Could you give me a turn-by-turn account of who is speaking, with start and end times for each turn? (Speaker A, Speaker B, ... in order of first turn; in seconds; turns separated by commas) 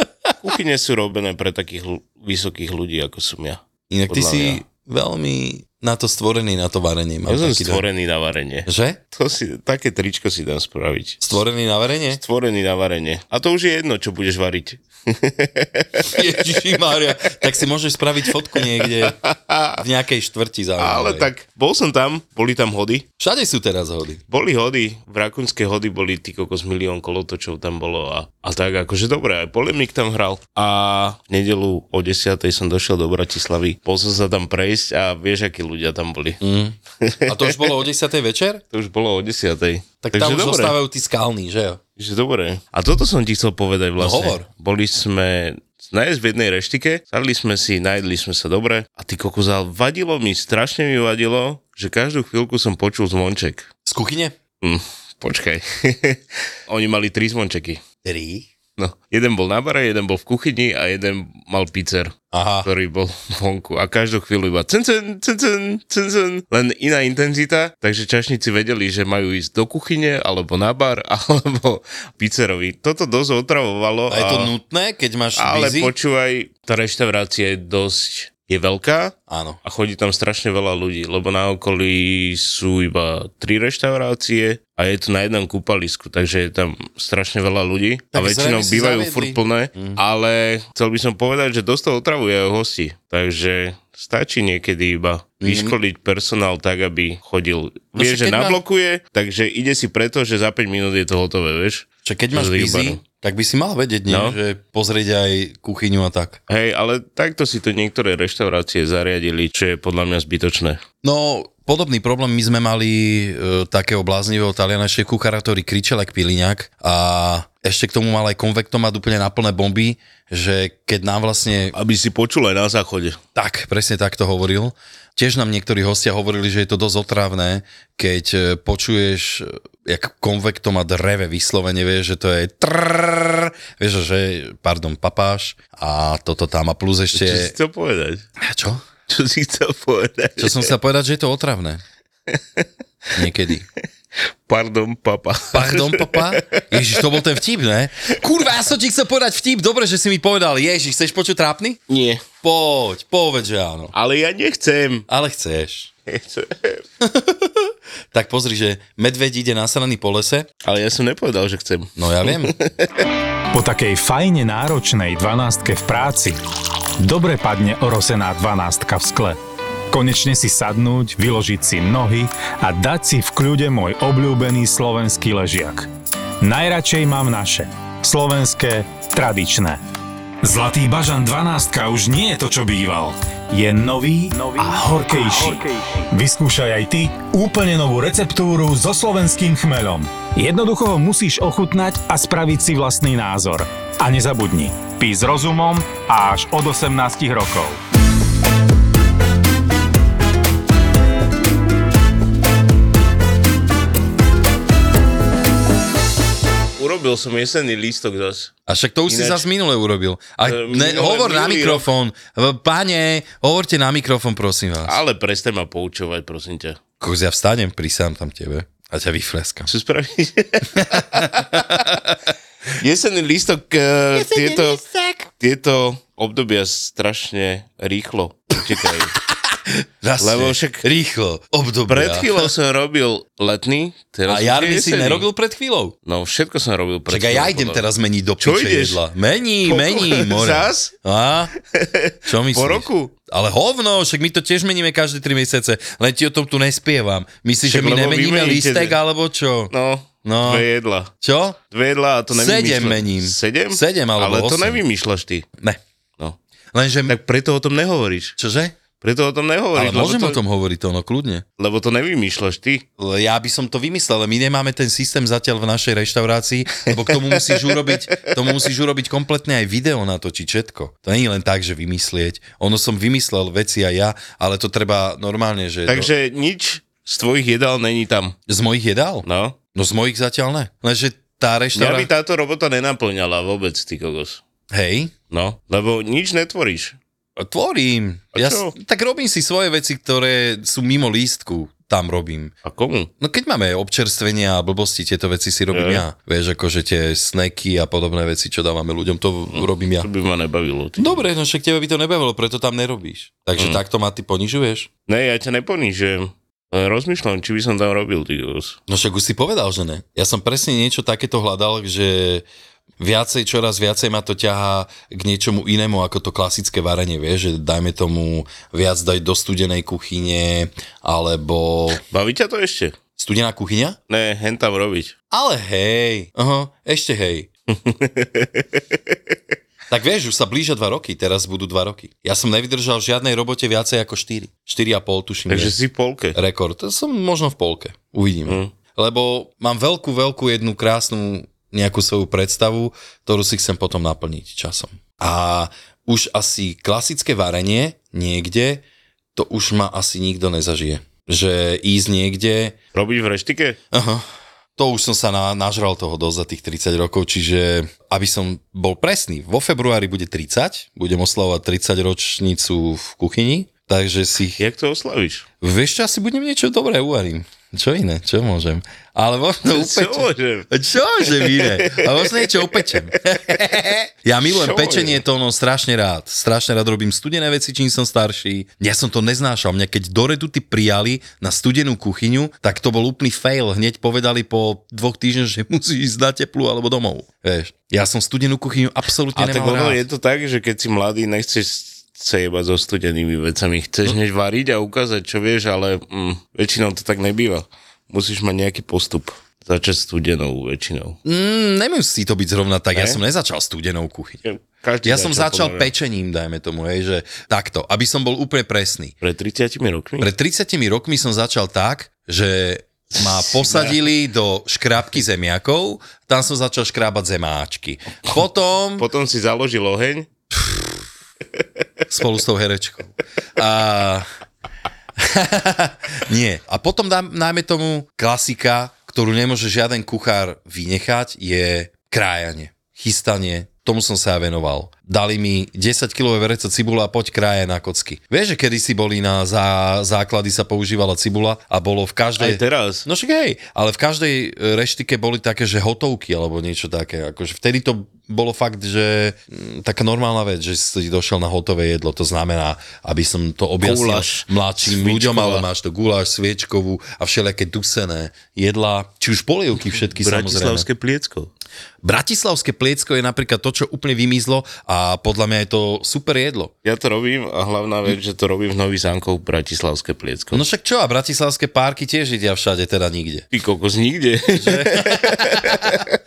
Speaker A: 0.4-4.6, Speaker B: 3.9-7.8, Speaker A: 7.3-11.4, Speaker B: 8.7-9.0, Speaker B: 11.2-12.2, Speaker A: 12.1-16.8, Speaker B: 16.1-19.2, Speaker A: 18.6-19.8, Speaker B: 19.8-21.3, Speaker A: 20.8-23.1, Speaker B: 23.2-24.2, Speaker A: 24.3-36.4, Speaker B: 36.4-38.6, Speaker A: 37.0-37.8, Speaker A: 38.7-40.8, Speaker B: 40.0-41.8, Speaker A: 42.0-53.7, Speaker B: 44.0-44.5, Speaker B: 53.9-54.4, Speaker A: 54.6-57.8, Speaker B: 58.0-58.5, Speaker A: 58.8-74.5, Speaker B: 62.3-62.7, Speaker B: 74.1-75.9, Speaker A: 75.4-103.0, Speaker B: 79.3-79.6, Speaker B: 88.1-90.0, Speaker B: 95.4-95.8, Speaker B: 98.0-98.6, Speaker B: 102.0-106.4, Speaker A: 104.1-104.4, Speaker A: 106.5-110.8, Speaker B: 111.0-121.7, Speaker A: 121.7-123.2, Speaker B: 123.3-137.6, Speaker A: 137.1-138.2, Speaker B: 138.4-138.8, Speaker A: 139.1-140.8, Speaker B: 140.4-141.8, Speaker A: 142.3-142.7, Speaker B: 143.2-143.7, Speaker A: 144.5-147.2, Speaker B: 145.5-151.8, Speaker A: 151.9-152.2, Speaker B: 152.4-153.9, Speaker A: 153.9-155.1, Speaker B: 155.1-155.9, Speaker A: 156.1-156.8, Speaker B: 157.0-160.5, Speaker A: 160.6-162.9, Speaker B: 162.0-162.5, Speaker C: 163.5-166.4, Speaker C: 167.0-169.4, Speaker C: 169.9-175.9, Speaker C: 176.4-179.8, Speaker C: 180.4-197.8, Speaker A: 206.8-208.5, Speaker B: 208.7-215.0, Speaker A: 209.1-209.5, Speaker A: 210.4-211.9, Speaker A: 214.8-216.8, Speaker B: 217.0-219.7, Speaker A: 219.7-221.9, Speaker B: 220.7-222.2, Speaker A: 222.8-224.8, Speaker B: 224.2-225.3, Speaker A: 225.4-229.2, Speaker B: 229.7-232.5, Speaker A: 230.2-230.9, Speaker A: 231.9-235.3, Speaker B: 234.3-235.9, Speaker A: 236.1-237.9, Speaker B: 237.1-241.5, Speaker A: 238.4-239.0, Speaker A: 239.7-240.9, Speaker A: 241.7-243.1, Speaker B: 242.3-249.7, Speaker A: 247.6-249.0, Speaker A: 249.7-251.1, Speaker B: 250.2-250.7, Speaker B: 251.2-251.6, Speaker A: 251.7-255.5, Speaker B: 252.3-254.8, Speaker B: 256.7-257.2, Speaker A: 257.1-258.4, Speaker B: 258.4-258.8, Speaker A: 259.0-260.4, Speaker B: 259.8-261.4, Speaker A: 261.6-262.8, Speaker B: 263.0-276.1, Speaker A: 266.9-268.4, Speaker A: 275.9-278.4, Speaker B: 278.5-282.1, Speaker A: 279.2-279.6, Speaker A: 281.8-284.4, Speaker B: 284.7-285.1, Speaker A: 285.3-287.0, Speaker B: 287.4-292.5, Speaker A: 288.3-288.8, Speaker A: 292.6-293.1, Speaker B: 293.2-300.1, Speaker A: 295.7-296.0, Speaker A: 299.5-301.2, Speaker B: 301.0-304.9, Speaker A: 305.1-308.8, Speaker B: 308.9-312.4, Speaker B: 313.0-322.0, Speaker A: 322.1-323.0, Speaker B: 323.2-324.0, Speaker A: 324.1-325.1, Speaker B: 325.3-327.5, Speaker A: 327.7-329.2, Speaker B: 329.9-335.8, Speaker A: 335.5-336.4, Speaker B: 336.4-348.8, Speaker A: 338.5-338.7, Speaker B: 349.4-352.8, Speaker A: 352.9-353.8, Speaker B: 353.9-354.3, Speaker B: 354.8-364.6, Speaker A: 364.6-365.5, Speaker B: 365.6-390.0, Speaker A: 369.7-372.9, Speaker A: 374.4-375.2, Speaker A: 389.4-401.2, Speaker B: 401.2-404.4, Speaker A: 402.9-403.2, Speaker A: 404.4-405.9, Speaker B: 405.0-409.1, Speaker A: 409.2-410.3, Speaker B: 410.2-419.1, Speaker A: 413.1-414.0, Speaker A: 419.0-420.3, Speaker B: 420.5-420.9, Speaker B: 422.1-424.3, Speaker B: 425.2-460.9, Speaker A: 442.4-443.1, Speaker A: 453.8-455.7, Speaker A: 460.0-461.5, Speaker B: 462.0-466.7, Speaker A: 466.9-470.6, Speaker B: 470.5-473.5, Speaker A: 473.5-476.2, Speaker B: 474.6-476.1